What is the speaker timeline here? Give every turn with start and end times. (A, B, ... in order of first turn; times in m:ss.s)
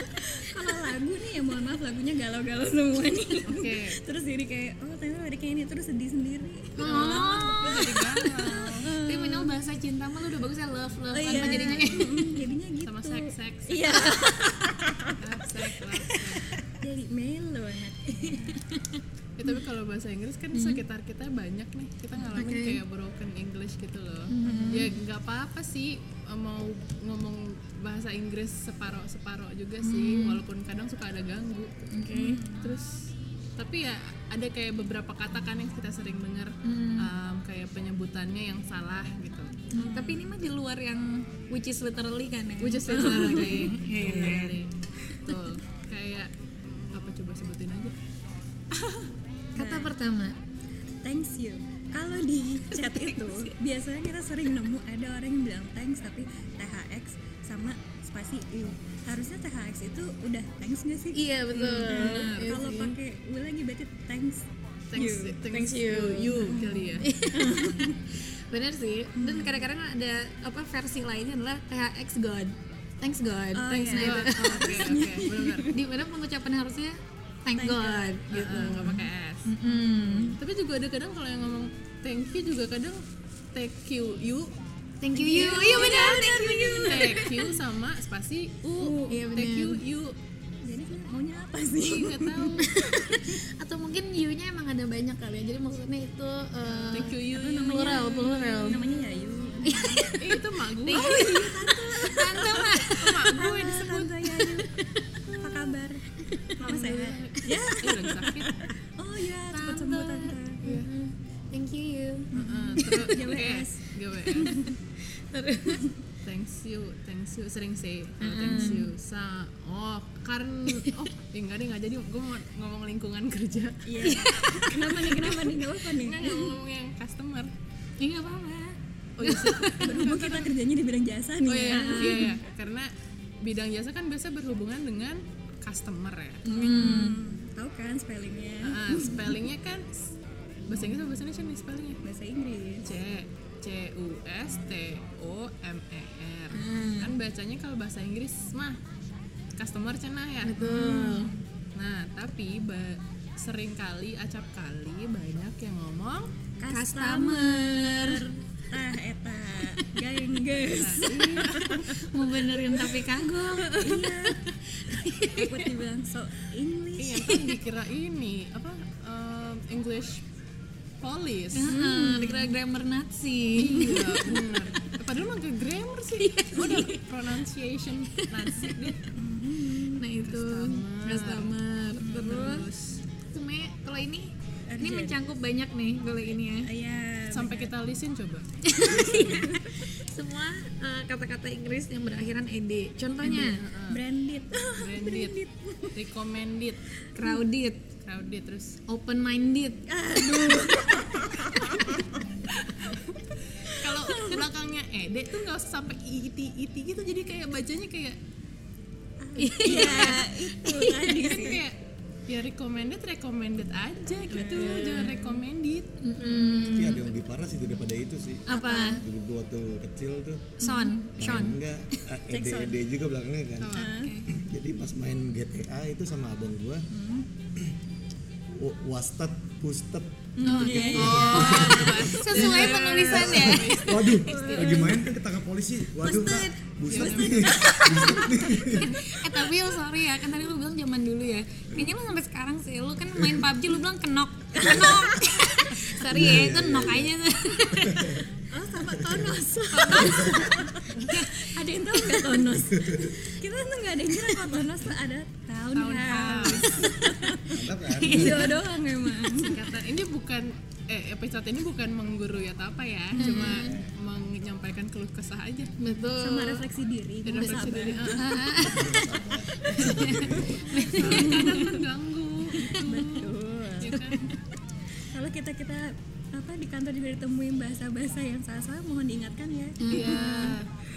0:00.2-0:09.5 A
0:03.5-0:04.0 B
0:06.8-0:08.1 C
0:06.8-0:08.9 B
0:08.8-0:12.4 C
0:11.1-0:15.1 A
0:11.3-0:12.0 B
0:12.8-0:13.9 B
0:13.9-0:14.3 C
0:15.2-0:16.6 B
0:16.1-0:18.6 A
0:18.2-0:19.0 C
0:19.4-0:31.9 B
0:20.5-0:20.8 C
0:22.4-0:22.8 C
0:24.3-0:24.9 C
0:24.4-0:24.8 A
0:29.8-0:30.4 C
0:31.9-0:32.4 C
0:32.1-0:32.8 A
0:32.6-0:39.7 B
0:36.6-0:37.1 C
0:39.7-0:44.5 C
0:39.7-0:40.3 A
0:42.6-0:48.0 B
0:48.8-0:49.1 B
0:49.6-0:49.9 A
0:49.6-0:50.4 C
0:51.0-1:05.4 A
0:52.8-0:53.4 C
1:01.1-1:02.9 C
1:01.6-1:02.9 B
1:04.9-1:07.1 B
1:05.5-1:06.4 C
1:06.3-1:08.0 A
1:07.0-1:14.8 C
1:09.2-1:09.7 A
1:13.5-1:15.8 A
1:13.8-1:15.7 B
1:15.7-1:20.4 C
1:17.6-1:19.0 A
1:18.3-1:19.5 B
1:19.9-1:20.3 A
1:20.4-1:23.0 B
1:23.5-1:24.6 B
1:25.0-1:27.5 C
1:25.2-1:30.2 B
1:25.2-1:27.3 A
1:28.8-1:29.2 A
1:29.1-1:29.8 C
1:30.6-1:33.4 A
1:31.8-1:32.7 B
1:32.6-1:38.8 C
1:36.7-1:37.8 B
1:37.1-1:40.1 A
1:39.6-1:43.3 C
1:40.2-1:41.3 B
1:40.9-1:44.9 A
1:42.9-1:44.4 B
1:45.4-1:46.0 A
1:46.2-1:46.9 C
1:46.6-1:50.6 A
1:46.6-1:48.7 B
1:49.5-1:53.1 C
1:50.6-1:50.9 B
1:52.3-1:53.8 A
1:52.3-1:54.7 B
1:54.3-1:54.6 A
1:55.0-1:55.9 C
1:56.2-2:04.0 B
1:58.2-1:58.9 C
1:58.5-1:58.7 A
2:03.9-2:06.6 A
2:04.0-2:05.2 C
2:05.1-2:05.5 B
2:06.0-2:07.5 B
2:08.0-2:10.0 C
2:09.2-2:10.5 B
2:09.8-2:12.4 A
2:11.4-2:16.5 B
2:11.6-2:12.4 C
2:16.4-2:17.2 C
2:16.4-2:19.4 A
2:18.6-2:20.2 B
2:20.7-2:22.0 B
2:22.0-2:22.9 A
2:22.8-2:28.8 B
2:26.5-2:27.1 C
2:29.6-2:30.8 B
2:30.4-2:31.3 C
2:30.6-2:31.4 A
2:31.8-2:36.3 B
2:36.6-2:42.0 A
2:36.7-2:38.3 C
2:40.7-2:41.8 B
2:41.9-2:44.1 C
2:43.7-2:44.4 A
2:44.8-2:45.7 C
2:45.3-2:47.6 A
2:47.0-2:50.2 B
2:51.0-2:51.7 B
2:51.5-2:54.4 C
2:51.7-2:52.5 A
2:53.6-2:59.1 B
2:53.8-2:54.3 A
2:56.2-2:57.1 C
2:58.1-2:59.0 C
2:59.1-3:00.0 A
2:59.8-3:02.7 C
3:00.2-3:01.6 B
3:02.0-3:02.5 A
3:02.2-3:03.0 B
3:03.3-3:06.7 C
3:04.7-3:05.2 A
3:06.7-3:07.7 A
3:07.3-3:09.4 B
3:08.6-3:13.6 C
3:09.0-3:09.6 A
3:13.2-3:14.0 B
3:13.9-3:16.0 A
3:14.8-3:16.8 B
3:17.2-3:17.8 C
3:18.0-3:18.8 B
3:18.9-3:21.2 C
3:19.9-3:22.0 A
3:22.9-3:28.2 B
3:29.2-3:31.6 A
3:29.4-3:31.3 C
3:29.6-3:30.2 B
3:31.1-3:35.9 B
3:34.3-3:35.4 A
3:34.4-3:35.1 C
3:36.0-3:37.1 C
3:36.2-3:36.9 A
3:36.7-3:40.6 D
3:38.5-3:39.0 C
3:38.5-3:39.0 A
3:40.6-3:41.6 C
3:40.6-3:40.9 A
3:41.2-3:46.9 D
3:42.3-3:42.8 A
3:43.6-3:43.9 B
3:43.7-3:44.2 A
3:44.0-3:44.3 C
3:46.9-3:47.3 A
3:48.5-3:59.0 D
3:50.4-3:52.6 A
3:50.4-3:53.8 C
3:50.5-3:54.9 B
3:53.5-3:55.0 A
3:56.0-4:08.2 C
3:56.9-3:57.7 B
3:57.3-3:58.2 A
3:58.7-3:59.0 B
4:03.2-4:03.5 D
4:04.6-4:05.4 A
4:06.0-4:07.1 D
4:07.7-4:08.3 D
4:08.5-4:19.7 A
4:08.9-4:09.4 D
4:09.7-4:10.3 B
4:09.8-4:10.4 C
4:11.0-4:12.4 C
4:12.6-4:13.2 D
4:14.2-4:14.5 C
4:15.7-4:16.9 B
4:17.4-4:18.6 D
4:18.0-4:18.6 C
4:19.3-4:26.7 B
4:23.2-4:23.8 C
4:23.2-4:23.5 A
4:23.4-4:23.9 D
4:25.8-4:26.4 C
4:26.2-4:28.3 A
4:27.2-4:28.4 B
4:28.2-4:31.8 C
4:28.6-4:30.8 D
4:30.1-4:31.8 A
4:30.9-4:34.2 B
4:32.6-4:34.3 A
4:33.9-4:34.2 C
4:35.1-4:40.5 A
4:39.8-4:40.6 C
4:39.9-4:40.7 B